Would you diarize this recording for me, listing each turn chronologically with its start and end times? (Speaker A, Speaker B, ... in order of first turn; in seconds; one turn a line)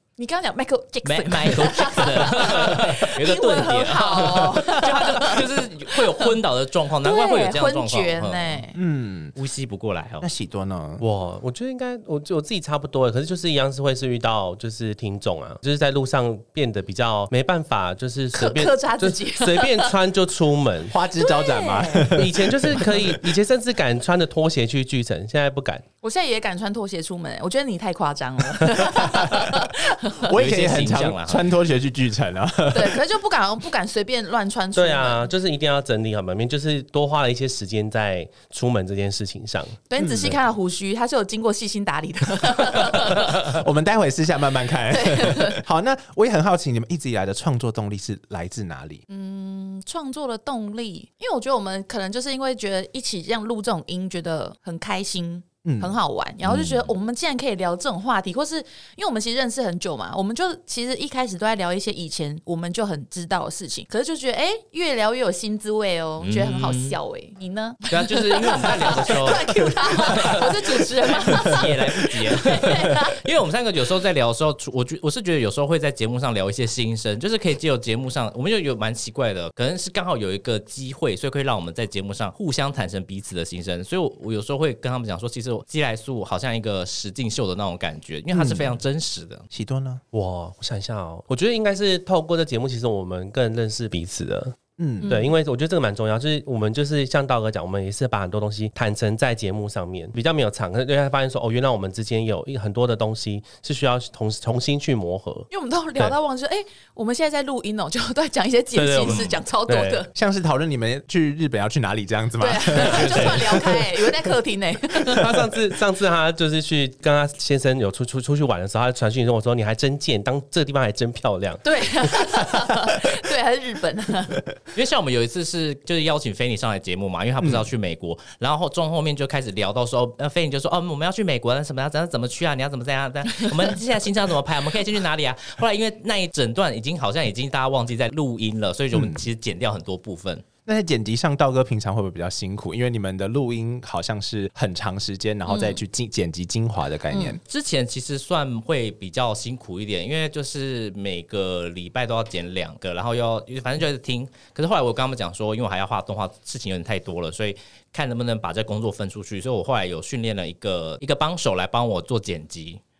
Speaker A: 0.2-6.3
Speaker B: 1.0-8.6
Speaker A: 7.0-8.8
Speaker C: 8.7-9.3
Speaker B: 9.3-10.2
Speaker C: 10.2-11.0
Speaker D: 11.0-20.9
Speaker A: 18.3-19.9
Speaker C: 20.9-23.3
Speaker A: 21.2-22.2
Speaker D: 22.1-25.8
Speaker A: 26.0-30.3
Speaker C: 28.9-29.5
Speaker C: 30.2-33.0
Speaker B: 30.3-31.5
Speaker A: 32.7-35.3
Speaker D: 34.7-39.8
Speaker A: 39.9-43.4
Speaker C: 40.0-40.4
Speaker C: 42.8-49.0
Speaker A: 44.9-45.6
Speaker A: 49.1-73.2
Speaker C: 55.6-55.9
Speaker B: 56.5-56.9
Speaker B: 66.2-67.0
Speaker B: 67.9-89.4
Speaker C: 88.3-88.8
Speaker C: 89.5-90.0
Speaker D: 90.1-106.2
Speaker C: 94.8-95.1
Speaker A: 95.0-95.3
Speaker A: 105.5-110.1
Speaker D: 108.7-110.0
Speaker B: 109.0-109.3
Speaker C: 110.1-114.0
Speaker A: 112.4-115.4
Speaker B: 112.8-113.4
Speaker D: 115.1-122.2
Speaker A: 121.6-124.4
Speaker B: 124.7-140.4
Speaker C: 127.4-127.7
Speaker C: 138.9-139.2
Speaker C: 140.7-147.4
Speaker A: 145.5-145.8
Speaker A: 147.1-147.4
Speaker B: 147.4-162.8